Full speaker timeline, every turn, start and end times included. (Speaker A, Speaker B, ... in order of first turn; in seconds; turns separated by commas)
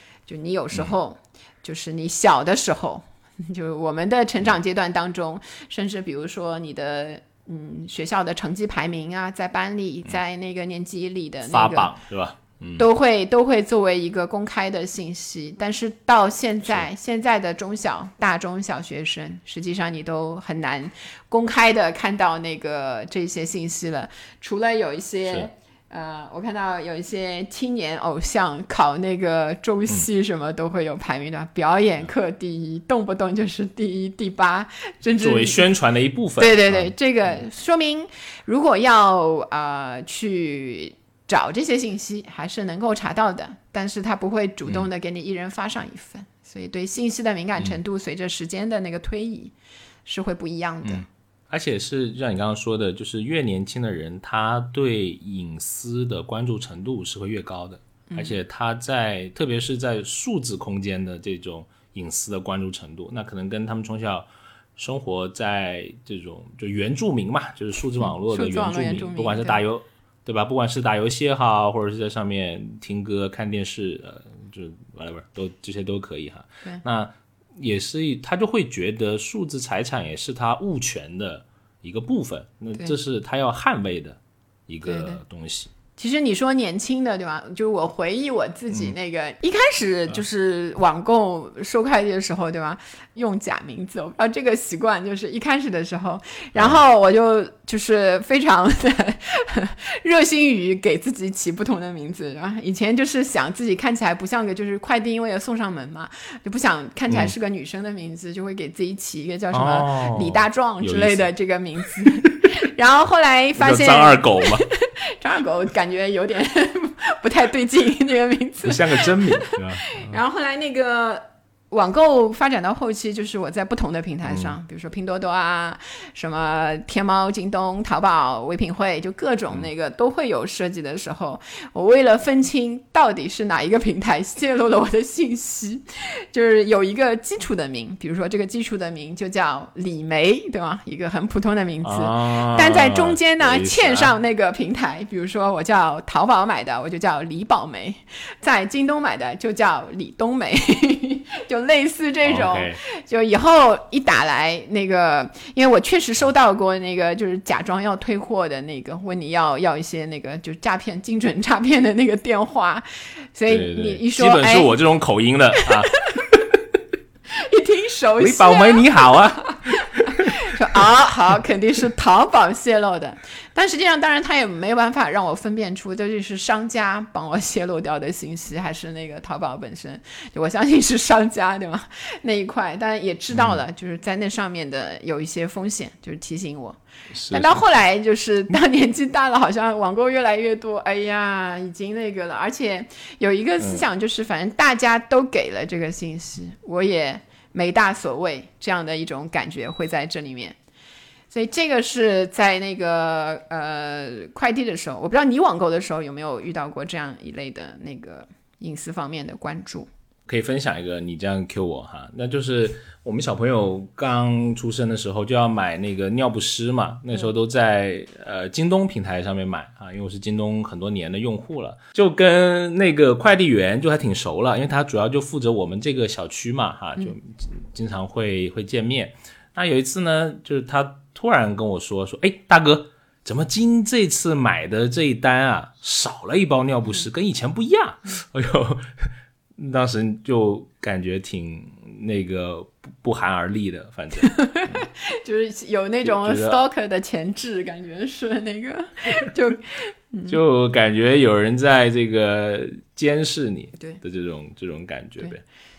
Speaker A: 0.3-11.9, Speaker B: 11.5-12.8, Speaker A: 12.8-35.7, Speaker B: 35.2-36.9, Speaker A: 36.4-49.5, Speaker A: 50.1-51.0, Speaker B: 50.8-85.7, Speaker A: 58.1-58.4, Speaker A: 68.0-69.6, Speaker A: 84.9-85.2, Speaker A: 86.0-164.7, Speaker B: 109.5-111.3, Speaker B: 113.6-114.7, Speaker B: 118.6-120.2, Speaker B: 124.3-124.5, Speaker B: 141.8-144.1, Speaker B: 152.2-152.8, Speaker B: 163.5-166.6, Speaker A: 165.7-166.3, Speaker A: 167.3-186.8, Speaker B: 168.2-170.4, Speaker B: 183.3-183.6, Speaker B: 187.2-187.6, Speaker A: 187.3-200.6, Speaker A: 201.3-209.9, Speaker B: 210.3-244.8, Speaker A: 244.2-250.4, Speaker B: 246.0-246.6, Speaker B: 250.3-255.4